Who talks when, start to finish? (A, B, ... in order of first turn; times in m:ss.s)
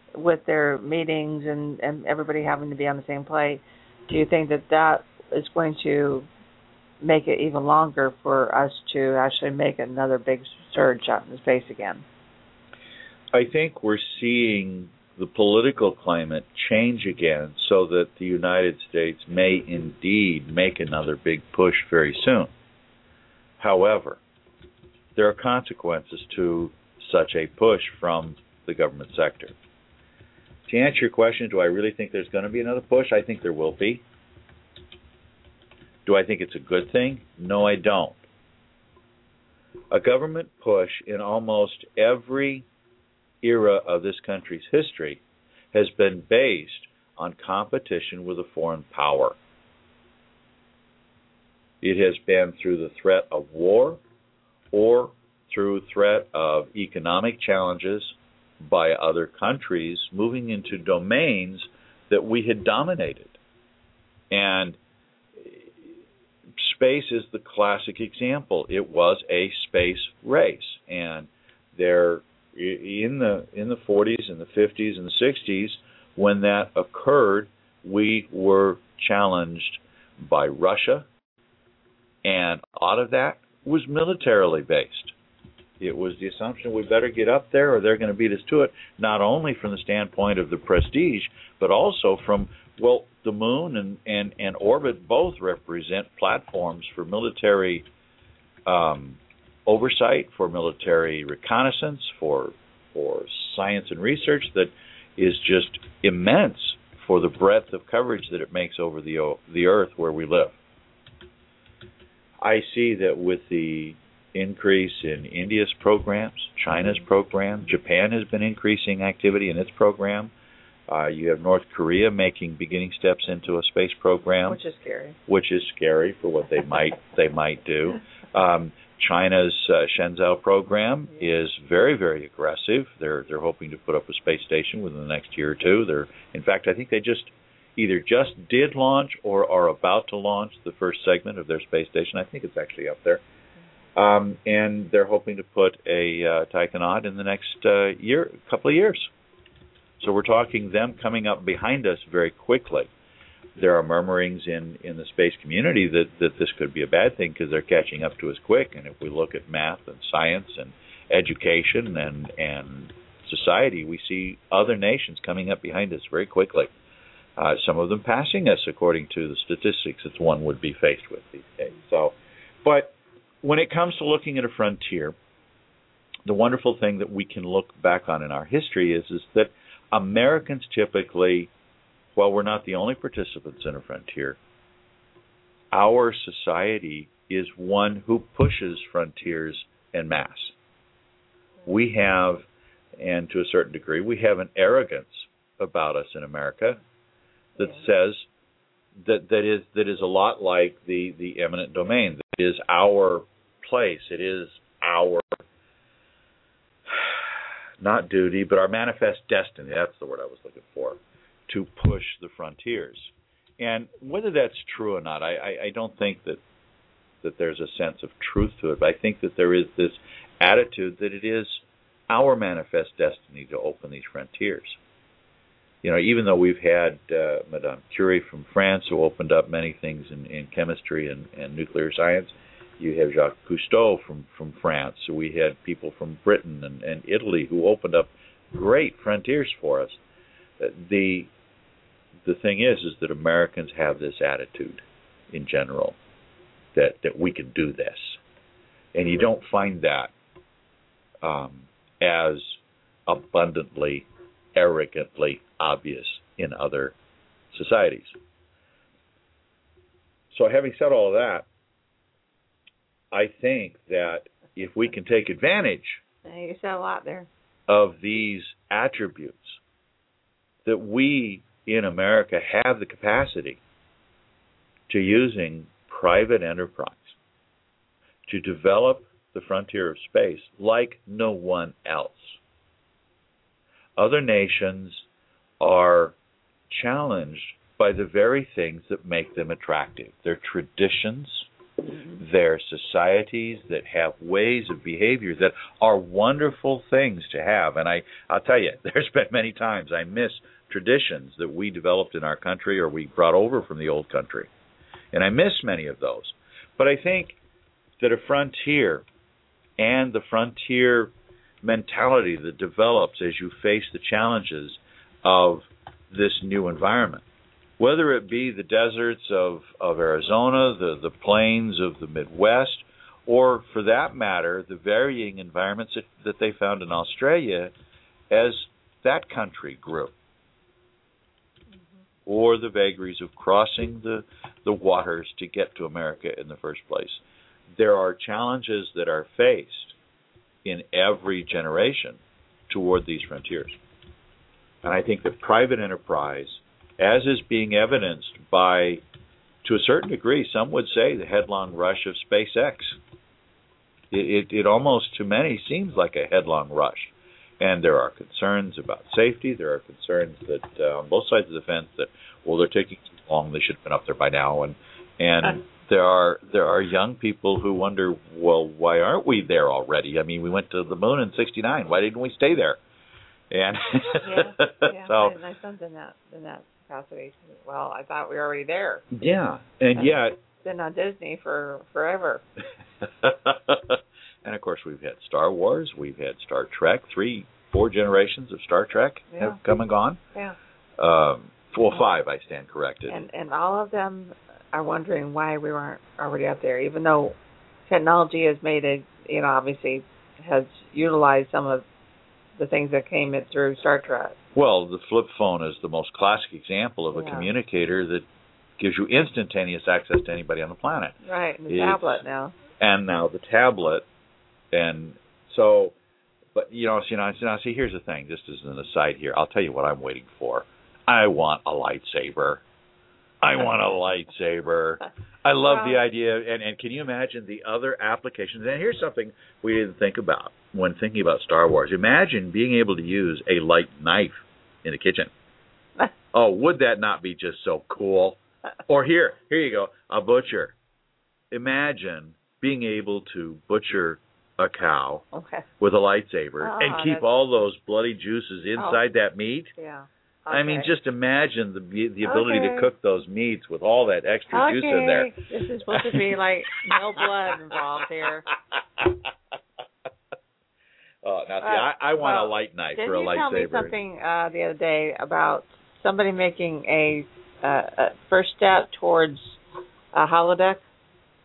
0:00.2-0:06.3 A
0:07.0-0:12.0 A
0:13.3-0:22.5 B
0:23.6-0:24.2 B
0:25.2-0:29.6 B
0:30.7-0:34.0 B
0:36.1-0:38.2 B
0:39.9-0:42.7 B
0:43.4-0:49.4 B
0:51.8-0:54.0 B
0:54.7-1:03.4 B
1:04.3-1:04.8 B
1:05.4-1:05.9 B
1:06.6-1:21.1 B
1:22.2-1:25.2 B
1:25.8-1:37.9 B
1:38.7-1:50.6 B
1:52.4-2:00.3 B
2:00.9-2:04.6 B
2:04.4-2:05.2 A
2:05.3-2:23.2 B
2:24.0-2:29.1 B
2:30.0-2:32.9 B
2:33.6-2:46.7 B
2:47.4-2:55.2 B
2:56.2-3:01.5 B
3:02.1-3:04.4 B
3:05.7-3:10.6 B
3:11.6-3:16.8 B
3:17.6-3:18.3 B
3:19.0-3:25.4 B
3:26.9-3:36.4 B
3:37.2-3:44.8 B
3:45.8-4:00.0 B
4:00.6-4:01.3 B
4:02.2-4:06.0 B
4:06.8-4:08.2 B
4:08.9-4:10.1 B
4:11.2-4:17.0 B
4:17.5-4:18.2 B
4:20.3-4:21.5 B
4:23.1-4:26.0 B
4:26.2-4:27.3 A
4:27.7-4:29.6 B
4:30.6-4:33.6 B
4:34.9-4:37.2 B
4:38.3-4:42.4 B
4:44.0-4:45.0 B
4:45.6-4:46.2 B
4:46.7-4:51.5 B
4:51.9-4:52.2 A
4:52.2-5:04.5 B
5:05.1-5:07.4 B
5:08.0-5:09.1 B
5:09.8-5:17.2 B
5:17.8-5:27.7 B
5:28.3-5:30.1 B
5:32.2-5:37.2 B
5:37.7-5:40.0 B
5:40.6-5:43.8 B
5:44.8-5:49.0 B
5:49.6-5:53.0 B
5:54.1-6:12.8 B
6:13.5-6:15.4 B
6:14.2-6:19.0 A
6:19.1-6:20.4 B
6:20.6-6:22.4 A
6:23.0-6:30.2 B
6:29.3-6:29.6 A
6:31.0-6:33.2 B
6:33.1-6:37.4 A
6:37.9-6:41.8 A
6:42.6-6:44.4 A
6:44.5-6:48.2 B
6:47.1-6:47.5 A
6:48.8-6:52.2 B
6:51.2-6:52.6 A
6:52.8-6:54.1 B
6:54.7-6:56.0 B
6:56.5-7:02.6 B
7:03.4-7:15.3 B
7:05.6-7:06.0 A
7:16.3-7:20.8 B
7:21.5-7:25.3 B
7:25.3-7:25.6 A
7:25.8-7:29.7 B
7:26.6-7:27.3 A
7:29.8-7:30.9 A
7:30.5-7:35.4 B
7:32.2-7:32.9 A
7:34.5-7:38.5 A
7:35.9-7:36.2 B
7:36.9-7:37.2 B
7:38.8-7:39.2 B
7:41.2-7:44.0 B
7:41.6-7:49.6 A
7:50.1-7:50.8 A